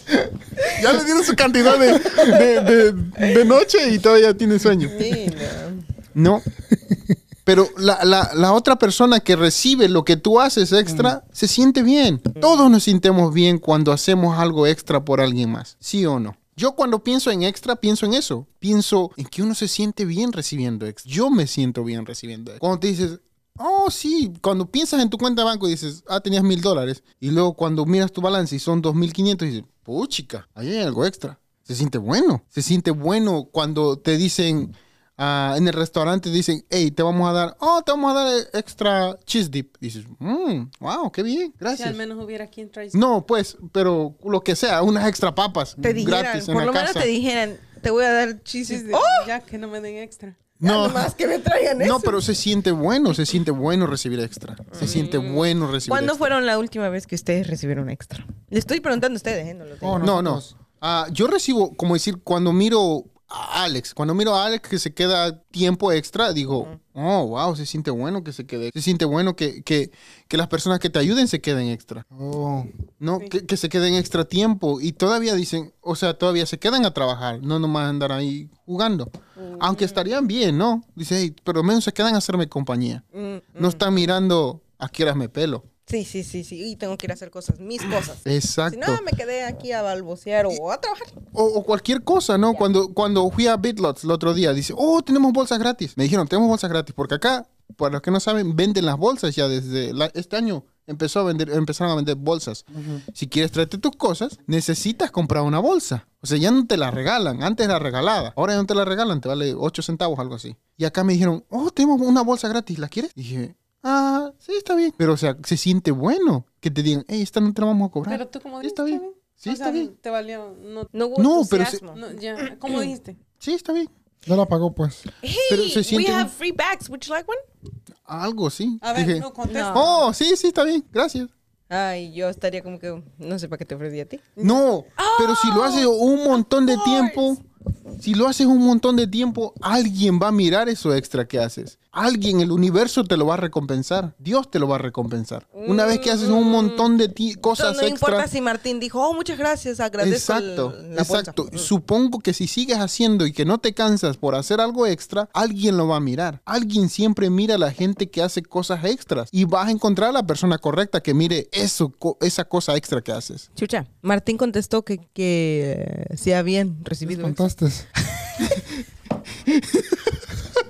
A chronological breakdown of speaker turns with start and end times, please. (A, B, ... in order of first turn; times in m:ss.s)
0:00.6-0:05.0 A
0:02.0-0:02.4 B
0:04.8-0:05.8 B
0:06.1-0:06.4 A
0:06.7-0:07.1 C
0:07.4-0:42.0 A
0:10.8-0:11.2 C
0:41.7-0:43.0 D
0:42.9-0:47.1 A
0:45.8-0:49.3 B
0:48.6-0:50.5 D
0:50.6-0:51.1 A
0:50.6-0:52.2 B
0:51.8-0:56.3 A
0:54.7-1:00.1 B
0:59.8-1:00.6 C
1:00.0-1:12.0 A
1:12.1-1:12.7 C
1:13.0-1:23.0 A
1:19.4-1:20.0 B
1:23.1-1:24.1 B
1:23.6-1:25.6 A
1:25.8-1:31.2 B
1:28.2-1:29.0 A
1:31.3-1:59.9 A
1:42.7-1:43.0 C
1:58.1-2:00.9 D
2:00.9-2:02.9 B
2:01.2-2:01.8 A
2:01.9-2:03.2 D
2:03.4-2:03.9 A
2:04.2-2:05.1 C
2:05.2-2:07.4 B
2:05.5-2:06.3 A
2:08.0-2:11.3 A
2:08.8-2:10.1 D
2:09.4-2:09.9 B
2:11.7-2:17.3 B
2:14.4-2:17.4 A
2:18.0-2:28.3 A
2:25.5-2:27.0 B
2:27.5-2:31.7 B
2:30.0-2:43.5 A
2:43.5-2:47.4 B
2:47.0-2:47.9 C
2:48.1-2:48.8 B